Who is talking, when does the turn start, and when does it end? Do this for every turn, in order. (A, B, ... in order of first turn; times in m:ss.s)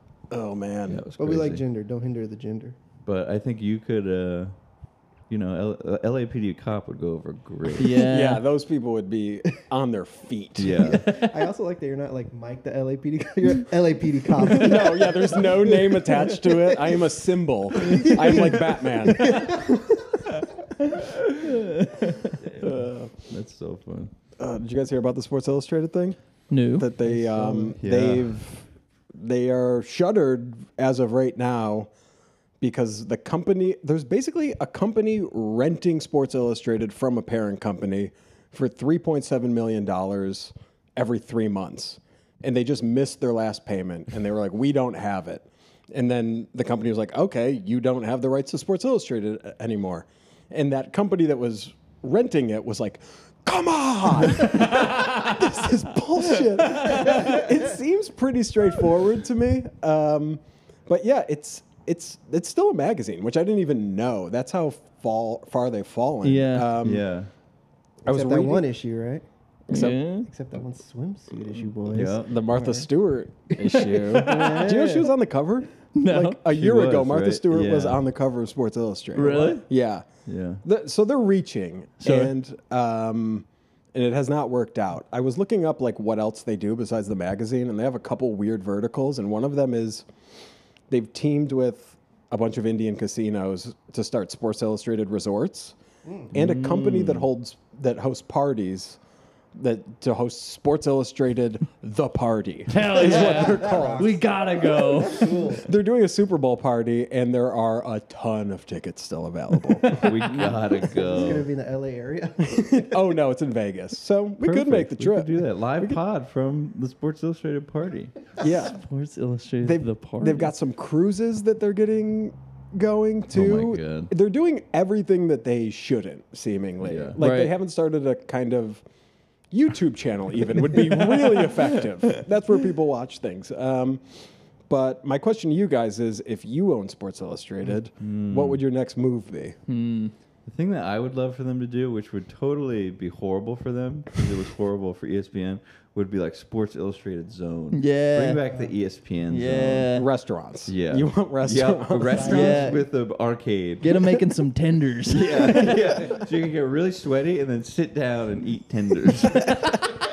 0:00.3-0:01.0 A
0:00.9-0:01.6 B
0:01.2-0:02.8 C
0:03.0-0:04.5 B
0:05.3-0:08.0 B
0:07.8-0:08.4 D
0:08.0-0:10.9 A
0:10.6-0:11.0 B
0:10.7-0:17.0 C
0:10.8-0:11.5 D
0:14.5-0:19.7 A
0:17.8-0:20.2 C
0:18.0-0:18.5 D
0:19.2-0:19.4 D
0:20.3-0:22.4 D
0:22.4-0:24.1 B
0:22.6-0:23.1 A
0:24.4-0:26.2 A
0:26.5-0:26.9 D
0:26.7-0:31.9 A
0:27.3-0:27.7 C
0:27.8-0:28.4 B
0:32.6-1:07.0 A
0:54.4-0:55.5 D
0:56.5-0:57.2 D
0:56.8-0:57.7 C
1:06.2-1:06.7 D
1:06.8-1:07.3 B
1:08.0-1:08.6 A
1:08.1-1:09.2 C
1:09.7-1:10.0 A
1:09.7-1:10.3 D
1:10.2-1:12.9 C
1:11.9-1:12.3 B
1:12.1-1:20.0 A
1:13.6-1:15.0 D
1:13.7-1:15.1 C
1:16.0-1:16.4 D
1:16.4-1:18.0 B
1:19.1-1:19.6 D
1:20.2-1:20.6 B
1:20.6-1:30.0 A
1:22.0-1:22.3 D
1:30.9-1:35.7 A
1:36.0-1:36.3 C
1:36.3-1:37.3 B
1:36.3-1:39.0 A
1:39.5-1:44.2 A
1:42.7-1:45.5 D
1:42.9-1:45.7 C
1:45.6-1:50.5 A
1:50.0-1:51.5 B
1:50.3-1:53.0 C
1:52.6-1:56.0 A
1:54.4-1:58.2 B
1:58.4-1:58.8 A
1:58.5-2:00.5 D
1:59.6-2:08.8 A
2:03.3-2:04.1 B
2:06.8-2:07.2 B
2:07.2-2:07.5 D
2:09.5-2:19.6 A
2:10.8-2:11.6 D
2:18.0-2:18.6 B
2:19.7-2:20.1 D
2:20.4-2:29.9 B
2:27.7-2:28.4 D
2:29.3-2:30.1 D
2:29.9-2:32.4 A
2:30.7-2:34.2 B
2:32.0-2:32.8 C
2:32.2-2:32.8 D
2:33.8-2:36.0 D
2:35.1-2:39.9 B